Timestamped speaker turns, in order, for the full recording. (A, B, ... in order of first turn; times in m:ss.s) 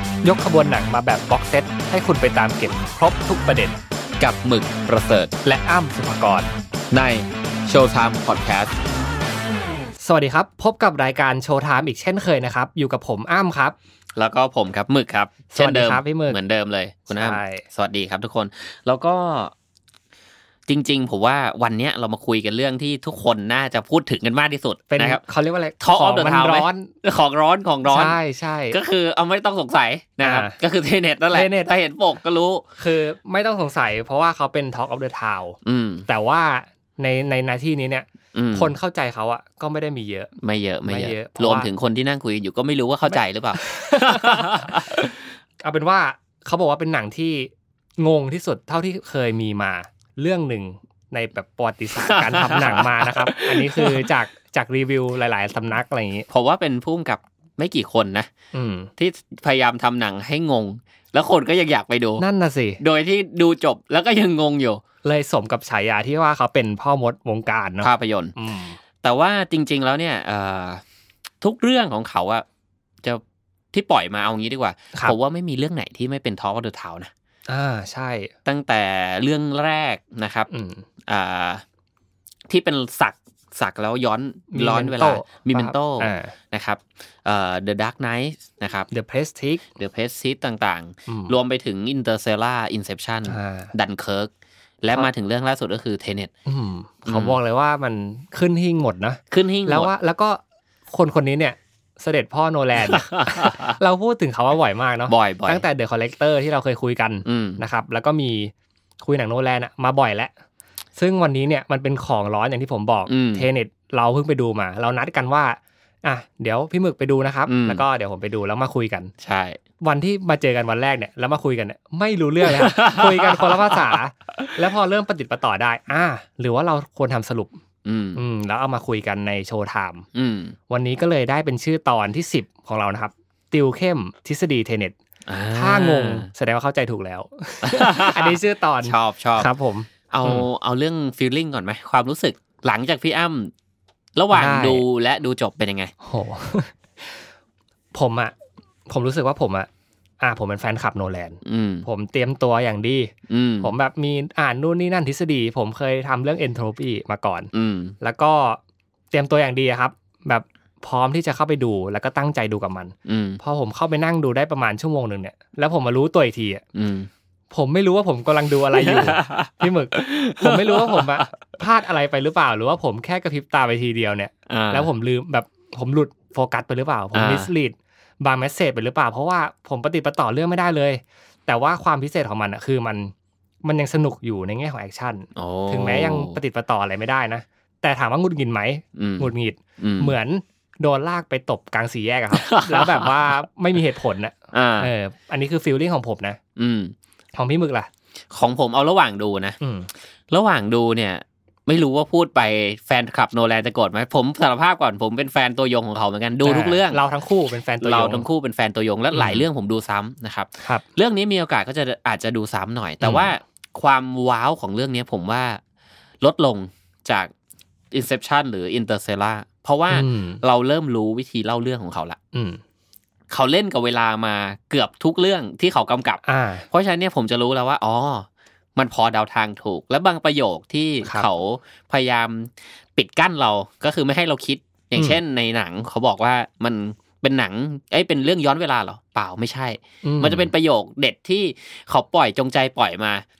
0:00.2-0:03.8 A
0:04.2-0:05.3 B
0:05.4-0:06.5 A
0:06.9-0:08.7 B
0:10.0-0:13.8 A
0:14.2-0:19.5 B
0:15.5-0:16.4 A
0:17.1-0:17.6 A
0:20.7-0:25.2 B
0:24.9-0:26.9 A
0:25.8-0:28.2 B
0:27.8-0:28.8 A
0:28.7-0:32.7 B
0:30.2-0:30.6 A
0:31.3-0:31.7 A
0:32.8-0:40.3 A
0:35.6-0:36.0 B
0:38.3-0:38.7 B
0:40.4-0:45.1 B
0:40.9-0:41.7 A
0:43.1-0:56.3 A
0:52.0-0:54.1 B
0:56.3-0:58.3 B
0:58.5-0:58.9 A
0:59.0-1:02.2 B
1:02.2-1:02.8 A
1:02.8-1:04.8 B
1:05.0-1:08.8 A
1:07.8-1:08.3 B
1:09.0-1:10.8 B
1:11.4-1:12.4 B
1:13.7-1:17.1 B
1:17.5-1:18.3 A
1:18.4-1:20.5 B
1:20.5-1:20.9 A
1:21.0-1:21.6 B
1:22.5-1:28.9 B
1:24.5-1:26.3 A
1:28.9-1:29.6 A
1:29.8-1:34.3 B
1:31.1-1:31.4 A
1:33.2-1:33.7 A
1:34.8-1:36.3 B
1:36.5-1:40.4 A
1:37.1-1:37.4 B
1:39.3-1:39.9 B
1:40.9-1:50.3 A
1:42.8-1:43.8 B
1:45.1-1:45.6 B
1:47.2-1:47.6 B
1:51.0-1:59.1 A
1:53.1-1:53.5 B
1:57.5-1:57.8 B
1:59.2-1:59.6 B
1:59.8-2:07.6 A
2:02.4-2:04.5 B
2:07.8-2:08.2 B
2:08.1-2:10.0 A
2:10.1-2:10.6 B
2:10.7-2:14.9 A
2:15.3-2:16.3 B
2:15.5-2:20.5 A
2:17.6-2:19.5 B
2:20.1-2:23.5 B
2:24.2-2:25.9 B
2:24.3-2:24.8 A
2:26.0-2:27.3 A
2:27.9-2:28.3 A
2:28.9-2:29.7 A
2:30.2-2:38.6 A
2:31.4-2:31.8 B
2:33.3-2:33.7 B
2:37.5-2:37.9 B
2:39.1-2:46.6 A
2:43.0-2:43.4 B
2:46.7-2:47.1 B
2:47.5-3:16.4 A
2:48.8-2:51.3 B
2:54.5-2:54.9 B
2:57.1-2:57.5 B
3:05.3-3:06.4 B
3:09.0-3:10.1 B
3:12.3-3:13.2 B
3:14.5-3:14.9 B
3:16.6-3:16.9 B
3:17.4-3:17.9 A
3:18.3-3:19.6 B
3:19.6-3:19.9 A
3:20.3-3:27.0 B
3:26.4-3:28.2 A
3:27.8-3:35.6 B
3:29.1-3:29.4 A
3:33.0-3:33.3 A
3:36.2-3:37.3 B
3:37.9-3:42.2 B
3:39.9-3:40.4 A
3:42.3-3:42.6 A
3:43.3-4:03.2 B
3:46.2-3:46.7 A
4:00.0-4:00.5 A